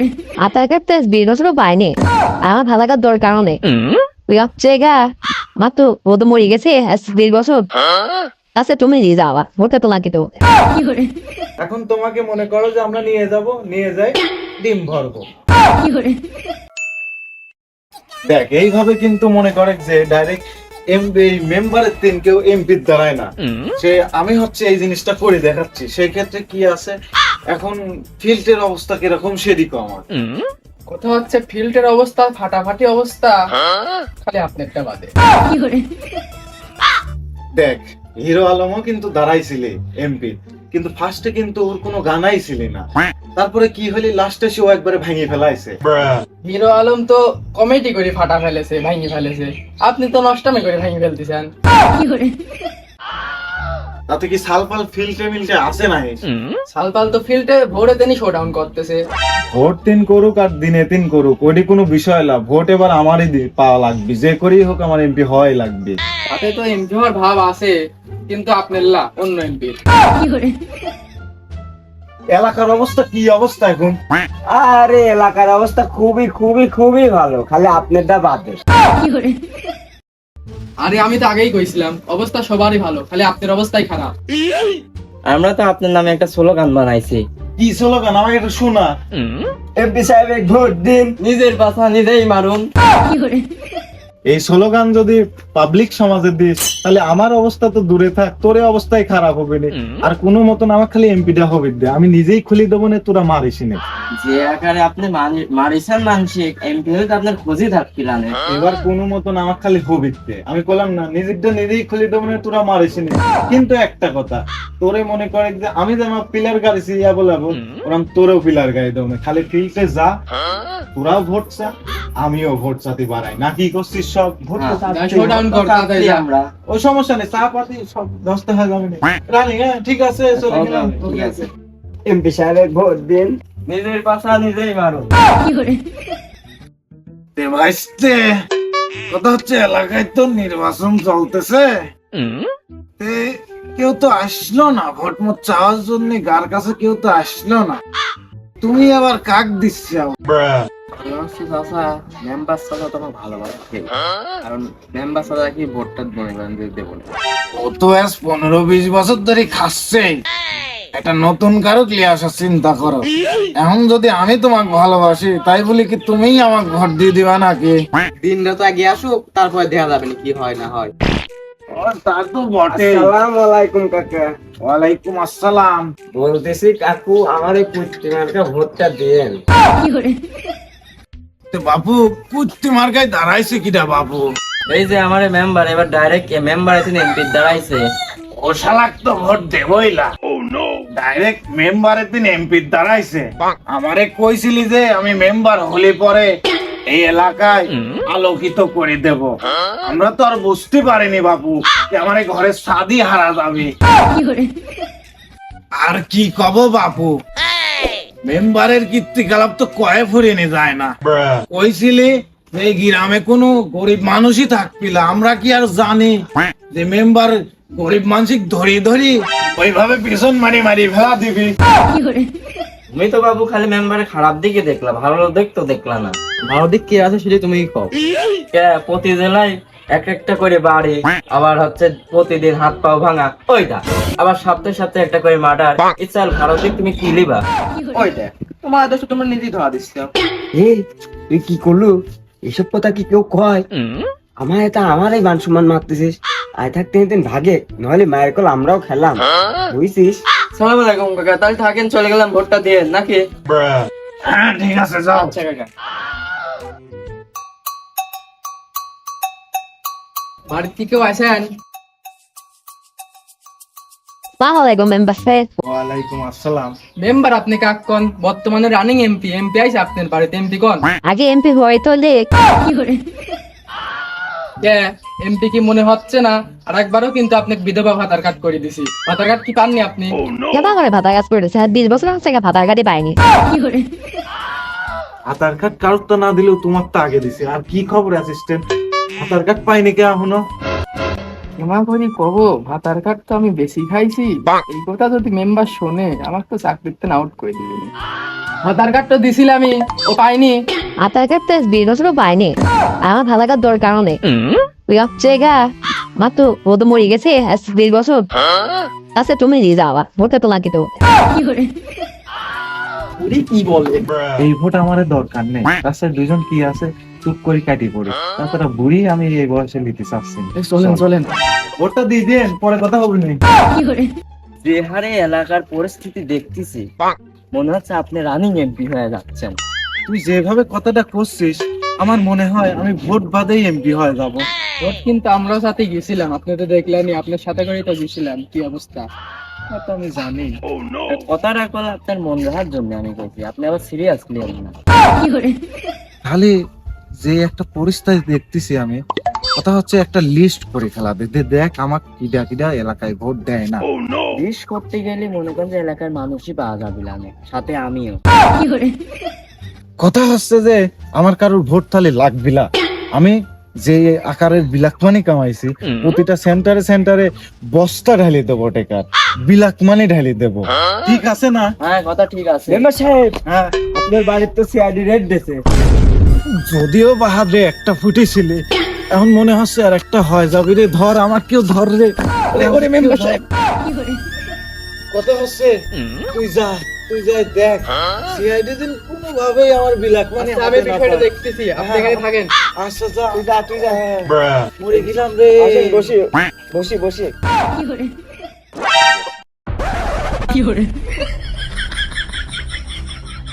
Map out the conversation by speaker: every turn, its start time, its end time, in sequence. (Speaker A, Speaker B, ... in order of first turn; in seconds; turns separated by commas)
Speaker A: 0.5-3.6, Speaker A: 4.3-5.0, Speaker A: 5.6-7.6, Speaker A: 8.6-10.3, Speaker B: 11.6-15.2, Speaker B: 18.3-26.9, Speaker B: 27.5-30.0, Speaker C: 30.9-33.5, Speaker C: 34.2-35.1, Speaker B: 37.6-42.8, Speaker B: 43.4-45.8, Speaker C: 46.4-51.5, Speaker B: 54.1-56.2, Speaker C: 56.7-59.0, Speaker B: 59.5-66.0, Speaker C: 66.3-67.7, Speaker C: 68.3-69.8, Speaker B: 72.3-74.0, Speaker D: 74.5-78.6, Speaker C: 80.8-84.1, Speaker E: 85.3-87.2, Speaker B: 87.6-88.9, Speaker D: 89.8-91.1, Speaker E: 91.2-92.7, Speaker B: 94.3-103.8, Speaker E: 104.2-108.4, Speaker B: 108.5-120.1, Speaker B: 121.0-125.3, Speaker E: 124.6-124.8, Speaker D: 124.8-125.8, Speaker C: 124.8-126.2, Speaker E: 125.6-126.5, Speaker B: 126.7-131.5, Speaker E: 130.4-131.5, Speaker D: 132.1-133.3, Speaker E: 133.7-135.2, Speaker B: 137.4-138.3, Speaker B: 139.1-141.9, Speaker B: 143.0-147.8, Speaker B: 148.6-150.7, Speaker E: 151.0-153.9, Speaker E: 154.4-157.1, Speaker B: 157.5-160.2, Speaker B: 160.9-167.8, Speaker C: 168.2-170.8, Speaker B: 171.7-173.1, Speaker D: 172.7-174.3, Speaker B: 174.6-175.9, Speaker D: 176.2-179.4, Speaker B: 181.5-184.3, Speaker E: 184.7-187.9, Speaker B: 188.3-190.1, Speaker B: 190.9-196.3, Speaker B: 196.9-203.7, Speaker B: 205.8-207.1, Speaker B: 208.2-221.5, Speaker E: 222.9-226.2, Speaker C: 226.5-227.3, Speaker E: 228.5-237.4, Speaker E: 237.9-240.1, Speaker D: 241.3-241.9, Speaker D: 242.5-243.7, Speaker D: 244.4-250.1, Speaker E: 250.6-253.3, Speaker B: 253.5-255.3, Speaker E: 255.1-255.7, Speaker C: 260.5-261.5, Speaker A: 264.4-265.5, Speaker B: 265.6-266.8, Speaker C: 267.0-270.9, Speaker A: 271.1-272.3, Speaker C: 274.6-280.2, Speaker A: 280.5-283.2, Speaker B: 285.3-288.6, Speaker B: 289.2-290.4, Speaker C: 291.6-297.9, Speaker C: 298.6-300.6, Speaker A: 301.0-302.5, Speaker A: 303.0-304.2, Speaker A: 304.9-305.6, Speaker A: 306.2-308.3, Speaker A: 309.2-310.9, Speaker C: 313.2-314.1, Speaker B: 314.4-321.1, Speaker C: 320.6-321.3, Speaker B: 321.8-323.4, Speaker E: 324.6-326.9, Speaker E: 327.5-329.6, Speaker B: 330.1-334.4, Speaker C: 334.8-339.1, Speaker B: 339.7-340.6, Speaker E: 341.1-344.8, Speaker B: 346.3-346.5, Speaker B: 347.2-349.0, Speaker B: 349.6-353.9, Speaker E: 354.3-358.2, Speaker B: 360.0-371.7, Speaker E: 371.8-372.8, Speaker D: 372.7-373.4, Speaker B: 373.5-373.7, Speaker D: 373.9-375.6, Speaker B: 376.5-383.4, Speaker C: 382.6-383.4, Speaker B: 385.1-385.8, Speaker B: 386.3-392.2, Speaker C: 390.4-392.5, Speaker B: 392.8-393.4, Speaker D: 393.4-394.3, Speaker B: 394.6-396.1, Speaker D: 395.6-397.3, Speaker C: 400.5-400.9